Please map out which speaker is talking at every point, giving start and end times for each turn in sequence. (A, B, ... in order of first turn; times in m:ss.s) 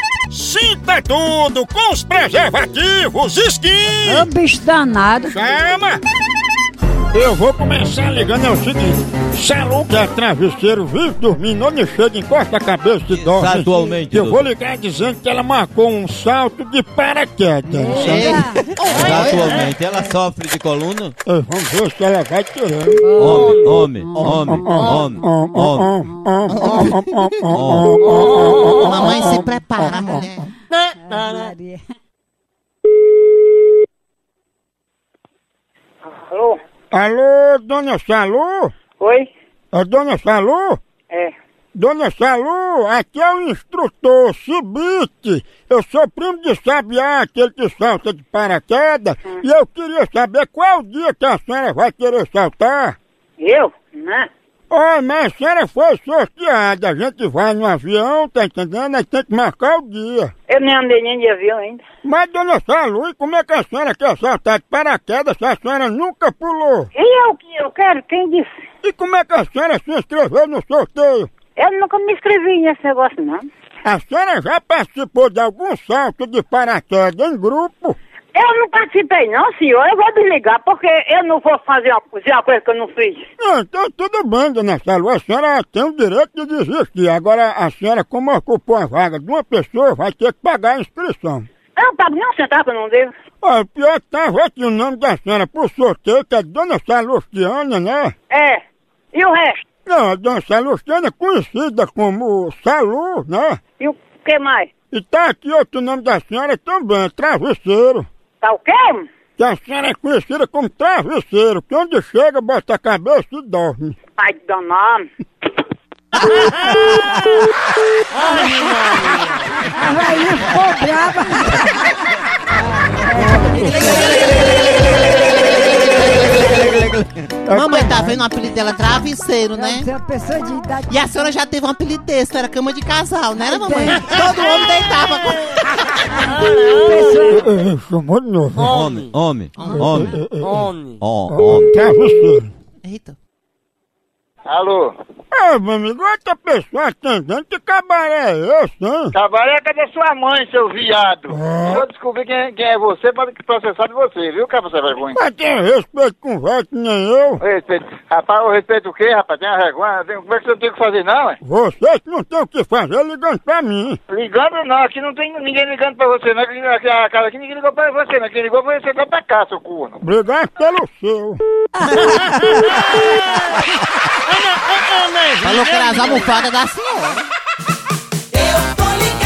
0:00.3-0:04.3 A
0:04.0-0:05.4 B
0:05.3-0:06.0 A
0:07.1-0:18.4 A
0:13.1-0:14.4 C
0:17.7-0:18.7 B
0:17.9-0:19.6 D
0:18.8-0:21.1 C
0:19.6-0:20.1 B
0:21.2-0:23.3 A
0:23.0-0:25.5 B
0:23.2-0:25.9 C
0:24.3-0:29.2 A
0:26.5-0:27.5 D
0:27.5-0:27.9 C
0:28.7-0:30.5 D
0:31.0-0:31.8 B
0:36.0-0:36.6 E
0:36.9-0:38.7 A
0:39.0-0:39.3 E
0:39.7-0:40.8 A
0:41.7-0:53.0 A
0:53.4-0:54.3 E
0:54.7-1:00.3 A
1:00.5-1:01.8 E
1:02.0-1:06.9 A
1:06.9-1:08.5 E
1:08.8-1:11.3 A
1:11.6-1:13.4 E
1:13.8-1:18.0 A
1:18.3-1:23.2 E
1:23.4-1:31.5 A
1:31.8-1:33.1 E
1:33.4-1:38.1 A
1:38.3-1:38.6 E
1:39.1-1:39.6 E
1:39.8-1:43.6 A
1:43.8-1:44.7 E
1:44.9-1:48.1 A
1:48.4-1:49.1 E
1:49.4-1:54.0 A
1:54.2-1:55.0 E
1:59.6-2:01.8 B
2:02.6-2:04.1 B
2:03.2-2:06.8 D
2:06.2-2:07.1 C
2:07.5-2:08.2 A
2:07.5-2:09.9 D
2:09.5-2:10.9 B
2:10.9-2:15.7 D
2:13.5-2:14.0 B
2:16.7-2:17.5 B
2:17.3-2:18.6 A
2:18.6-2:20.1 C
2:19.6-2:20.0 D
2:19.8-2:20.7 A
2:21.0-2:21.7 C
2:21.3-2:22.5 A
2:22.8-2:23.2 D
2:24.5-2:24.9 F
2:25.3-2:29.1 A
2:29.1-2:35.2 F
2:31.3-2:31.8 A
2:35.2-2:37.4 A
2:37.4-2:41.4 F
2:41.4-2:44.0 A
2:44.1-2:50.0 F
2:50.0-2:51.4 A
2:55.4-2:57.3 D